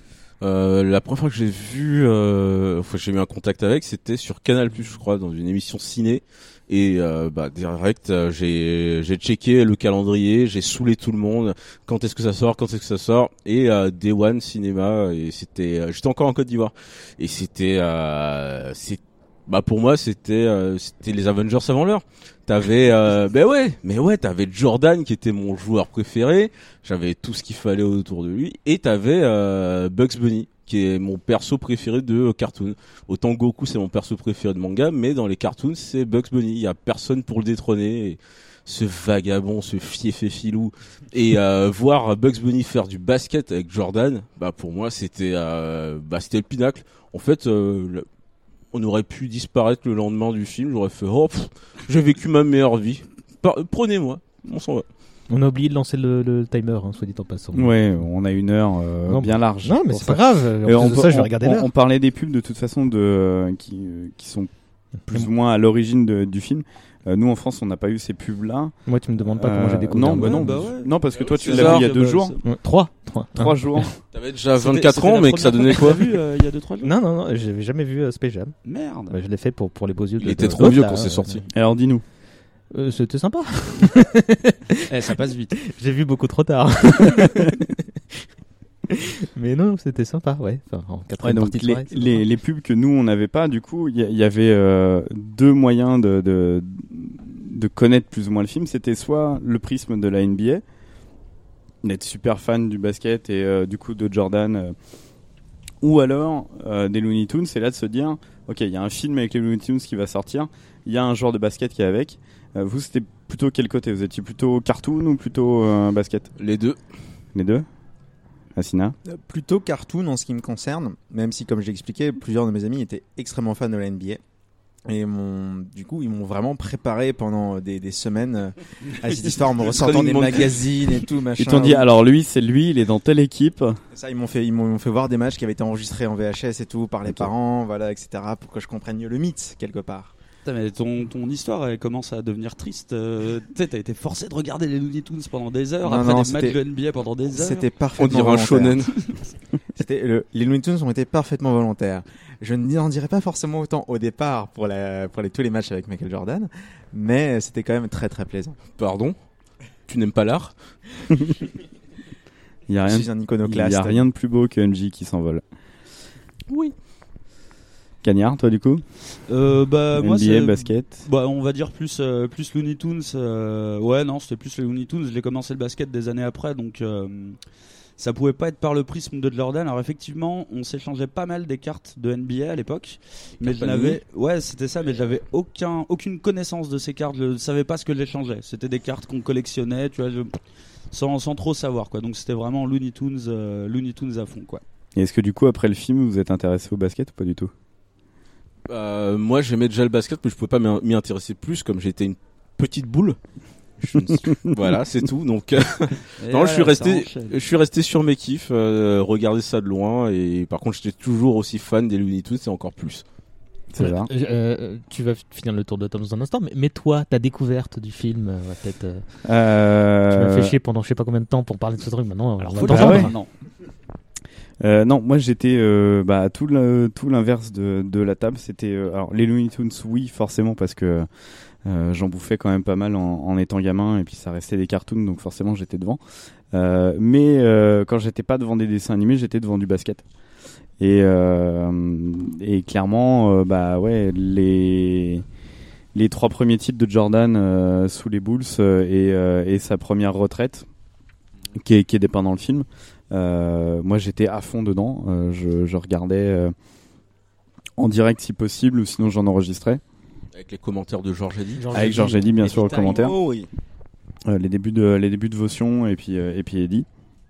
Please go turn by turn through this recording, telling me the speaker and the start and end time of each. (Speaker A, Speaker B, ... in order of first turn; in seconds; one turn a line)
Speaker A: 0.4-48.1
Speaker A: 48.7-54.9
Speaker B: 55.3-57.8
Speaker C: 57.5-64.5
Speaker B: 59.1-61.7
Speaker C: 65.1-72.4
Speaker B: 68.9-70.5
Speaker D: 70.2-72.5
Speaker A: 71.2-71.9
Speaker B: 72.4-73.9
Speaker C: 73.3-73.9
Speaker A: 74.1-76.1
Speaker D: 74.6-76.9
Speaker B: 76.8-78.6
Speaker D: 78.7-79.2
Speaker B: 79.1-81.5
Speaker A: 80.2-81.4
Speaker C: 81.5-82.0
Speaker B: 82.7-84.6
Speaker D: 84.9-85.6
Speaker B: 85.6-87.7
Speaker B: 88.9-92.2
Speaker C: 91.2-100.6
Speaker C: 101.8-104.8
Speaker C: 105.8-116.3
Speaker A: 116.4-116.8
Speaker C: 117.3-117.7
Speaker C: 118.6-119.0
Speaker E: 119.1-124.2
Speaker E: 124.9-131.9
Speaker A: 129.6-130.7
Speaker C: 131.4-133.8
Speaker E: 133.9-140.1
Speaker C: 137.1-137.3
Speaker D: 140.5-147.7
Speaker E: 145.8-146.6
Speaker E: 147.3-148.9
Speaker A: 148.0-149.0
Speaker E: 149.8-158.6
Speaker A: 158.8-159.2
Speaker A: 159.9-160.5
Speaker C: 162.7-165.4
Speaker E: 162.9-164.1
Speaker C: 168.0-168.8
Speaker D: 169.3-177.4
Speaker C: 170.0-171.1
Speaker D: 178.0-190.3
Speaker A: 183.4-184.0
Speaker D: 190.9-194.6
Speaker C: 195.0-197.5
Speaker A: 198.7-203.2
Speaker A: 203.8-213.0
Speaker C: 204.1-204.7
Speaker D: 206.2-207.4
Speaker C: 213.7-214.1
Speaker B: 213.8-219.0
Speaker C: 219.3-220.6
Speaker B: 220.1-223.2
Speaker D: 222.4-223.3
Speaker C: 222.6-223.1
Speaker C: 224.6-231.1
Speaker C: 231.7-236.0
Speaker C: 236.5-240.0
Speaker C: 240.8-245.2
Speaker C: 245.9-250.7
Speaker C: 251.6-256.5
Speaker C: 257.8-259.8
Speaker A: 260.4-261.8
Speaker B: 261.6-263.2
Speaker C: 261.7-263.2
Speaker D: 262.4-263.1
Speaker C: 264.3-266.9